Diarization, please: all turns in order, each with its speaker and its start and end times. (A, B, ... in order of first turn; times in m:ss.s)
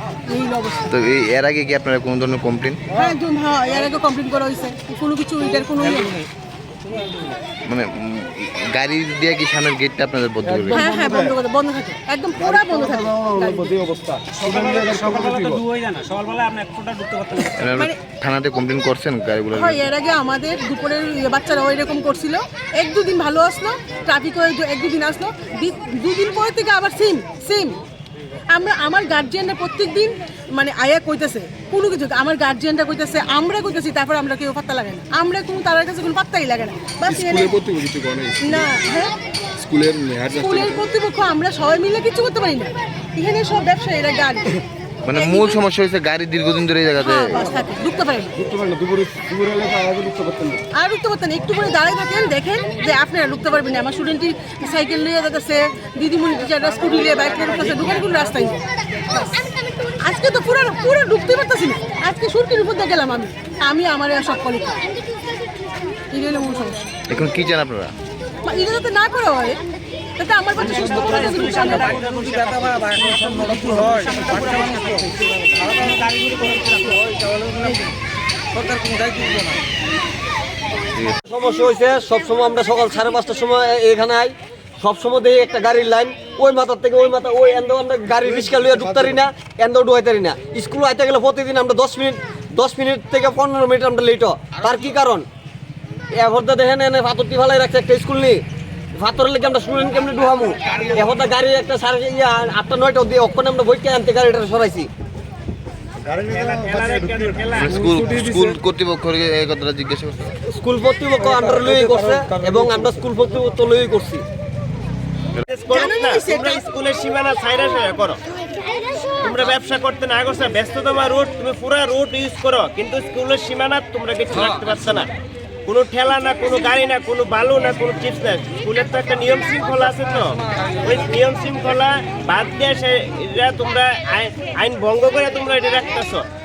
0:00.3-0:01.0 A
0:00.9-0:02.8 B
0:02.9-0:06.2 A
0:05.8-0:06.3 C
0:06.8-0:07.4 C
0:07.6-0:10.9 B
0:10.4-0:11.3 D
0:10.7-0:13.8 A
0:12.4-0:15.6 D
0:14.3-0:17.7 C
0:17.6-0:19.9 B
0:17.7-0:18.0 A
0:19.5-0:27.8 A
0:28.5-0:37.6 A
0:37.1-0:38.7 D
0:38.4-0:39.1 A
0:39.6-0:40.8 D
0:40.3-0:44.6 A
0:45.0-0:47.4 B
0:45.1-0:45.6 A
0:47.0-0:48.4 A
0:48.4-0:50.6 D
0:50.7-1:04.8 A
0:56.9-0:58.1 C
1:06.1-1:06.8 A
1:07.1-1:07.9 B
1:08.4-1:09.6 A
1:10.2-1:12.0 A
1:10.8-1:12.6 E
1:10.8-1:17.9 C
1:18.5-1:19.6 C
1:21.2-1:35.3 F
1:28.4-1:29.2 D
1:36.1-1:38.4 F
1:39.0-1:44.9 F
1:46.1-1:46.4 D
1:46.3-1:47.8 E
1:47.5-1:50.4 B
1:47.7-1:48.6 D
1:50.5-1:54.2 F
1:51.2-1:53.0 D
1:55.4-1:58.2 E
1:55.7-1:56.6 A
1:59.2-2:05.1 E
2:05.7-2:16.2 E